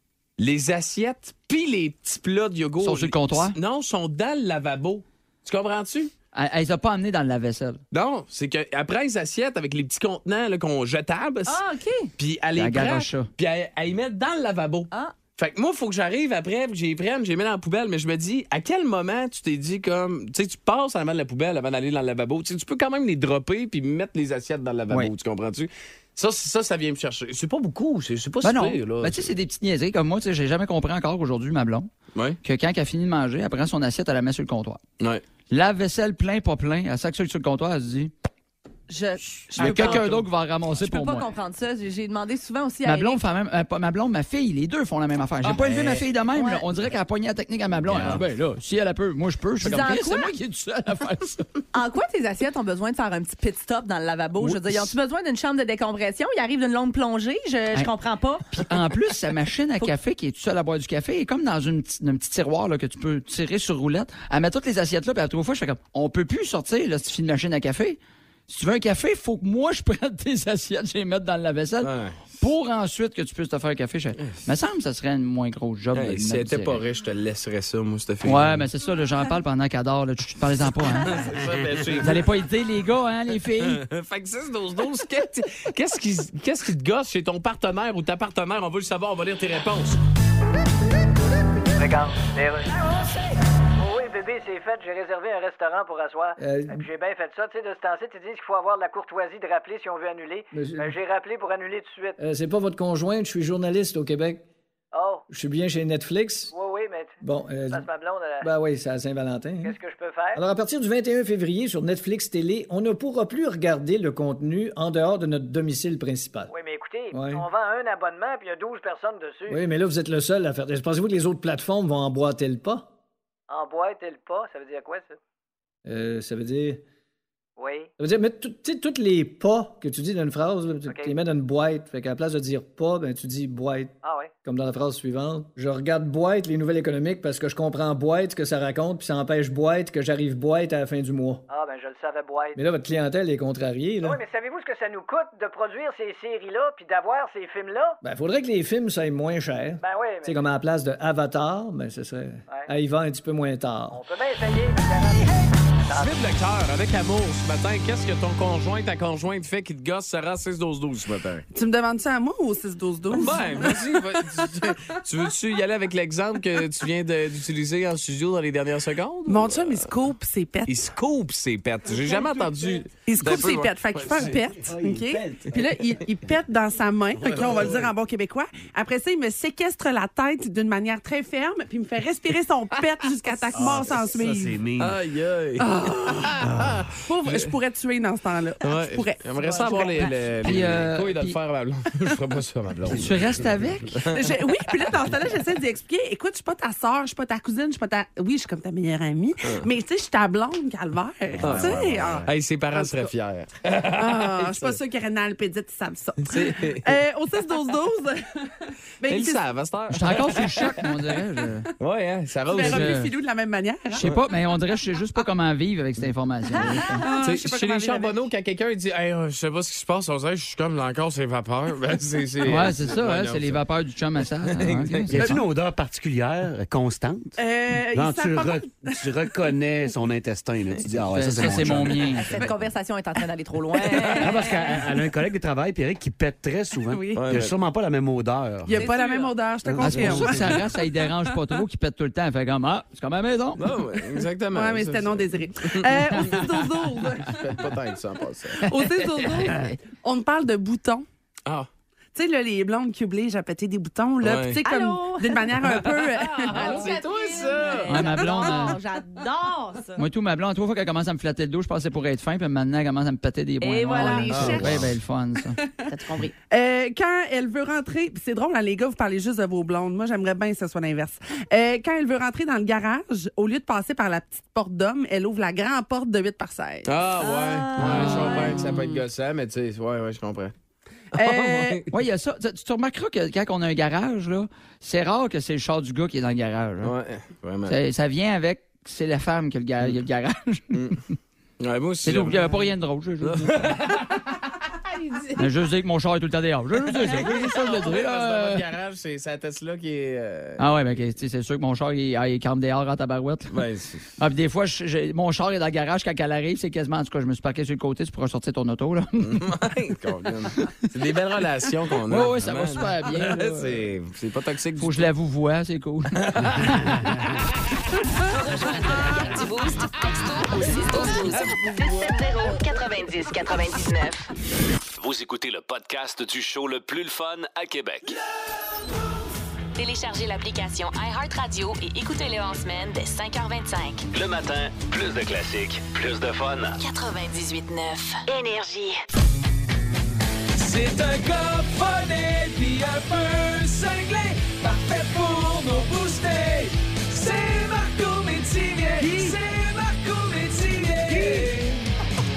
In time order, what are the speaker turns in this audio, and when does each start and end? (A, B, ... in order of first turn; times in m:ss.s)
0:00.4-0:06.1 A
0:02.8-0:03.6 B
0:06.4-0:07.8 B
0:07.9-0:11.6 A
0:11.5-0:12.1 C
0:12.2-0:29.2 A
0:12.6-0:13.3 B
0:28.4-0:31.9 B
0:32.4-0:34.8 B
0:35.5-0:38.1 B
0:38.9-0:43.2 C
0:39.6-0:40.2 A
0:39.6-0:41.3 B
0:42.8-0:51.5 B
0:45.4-0:46.1 A
0:46.3-0:46.6 C
0:47.9-0:48.2 A
0:49.6-0:50.3 C
0:51.7-0:58.7 C
0:54.4-0:54.9 B
0:58.6-1:16.8 B
1:11.8-1:12.3 A
1:16.0-1:18.7 A
1:18.2-1:21.2 B
1:21.0-1:22.2 A
1:22.0-1:23.8 B
1:23.6-1:30.0 A
1:31.8-1:33.1 D
1:33.8-1:42.2 D
1:36.4-1:36.8 E
1:40.5-1:41.0 E
1:42.2-1:44.4 E
1:44.9-1:45.2 D
1:45.3-1:46.5 E
1:46.5-1:47.2 D
1:47.2-1:47.9 E
1:47.7-1:48.5 D
1:48.4-1:49.8 E
1:49.6-1:50.4 D
1:50.4-1:56.5 E
1:56.5-1:59.6 D
1:57.1-1:57.4 E
1:59.5-2:02.9 E
2:03.5-2:05.2 D
2:05.8-2:06.8 E
2:07.6-2:07.9 D
2:08.0-2:21.5 E
2:10.9-2:11.2 D
2:14.0-2:14.3 D
2:21.5-2:22.6 D
2:22.6-2:24.2 E
2:24.0-2:28.0 D
2:28.0-2:34.0 E
2:29.8-2:30.4 D
2:33.9-2:36.2 D
2:35.9-2:41.4 A
2:41.5-2:43.8 F
2:43.1-2:49.9 A
2:49.3-2:50.8 F
2:50.7-2:54.4 A
2:53.0-3:04.6 F
2:54.1-2:56.4 G
2:57.2-2:57.8 A
2:57.2-2:57.8 G
3:03.5-3:05.0 G
3:03.6-3:03.9 A
3:04.8-3:07.5 A
3:05.6-3:06.4 F
3:07.1-3:10.6 F
3:08.6-3:14.2 A
3:10.4-3:11.4 B
3:12.9-3:14.0 B
3:14.1-3:23.1 F
3:21.3-3:22.3 G
3:21.4-3:24.8 A
3:23.9-3:29.4 F
3:26.3-3:26.9 A
3:29.1-3:30.8 A
3:29.9-3:31.7 B
3:31.8-3:33.0 A
3:32.5-3:34.1 F
3:32.6-3:33.1 B
3:34.0-3:37.0 B
3:36.7-3:38.2 F
3:37.2-3:43.6 A
3:42.4-3:45.4 B
3:44.5-3:45.4 A
3:45.1-3:47.4 G
3:47.4-3:48.3 C
3:47.4-3:48.9 F
3:47.9-3:52.6 G
3:51.1-3:52.4 B
3:52.0-3:54.6 C
3:54.0-3:58.8 G
3:56.9-3:57.2 F
3:57.2-3:57.6 A
3:58.6-4:00.9 F
3:58.7-3:59.4 C
3:59.6-4:00.6 G
3:59.8-4:03.6 B
4:03.6-4:06.4 A
4:04.5-4:07.4 F
4:07.2-4:08.7 A
4:08.6-4:11.0 F
4:12.2-4:16.8 F
4:14.2-4:14.6 A
4:14.6-4:15.4 C
4:15.6-4:18.4 A
4:16.5-4:20.0 C
4:17.9-4:18.8 B
4:20.0-4:25.6 B
4:23.6-4:24.9 C
4:24.0-4:24.9 A
4:24.1-4:24.5 F
4:25.9-4:26.3 C
4:26.5-4:36.9 F
4:36.8-4:40.5 A
4:37.2-4:38.7 C
4:37.9-4:38.3 B
4:41.1-4:41.9 F
4:41.2-4:41.9 A
4:41.9-4:46.9 B
4:46.8-4:47.8 A
4:47.7-4:51.0 B
4:50.7-4:51.0 A
4:51.6-4:52.7 A
4:52.0-4:53.7 B
4:53.2-4:54.2 A
4:55.4-4:58.6 B
4:56.9-5:00.7 A
5:00.6-5:03.6 B
5:03.5-5:04.1 A
5:04.2-5:09.5 B
5:09.2-5:15.1 A
5:12.1-5:13.8 B
5:14.8-5:17.0 B
5:16.2-5:17.0 A
5:18.2-5:24.3 H
5:21.0-5:22.0 A
5:25.0-5:28.2 I
5:29.8-5:34.1 H
5:34.1-5:36.8 I
5:36.8-5:39.0 H
5:40.6-5:51.8 A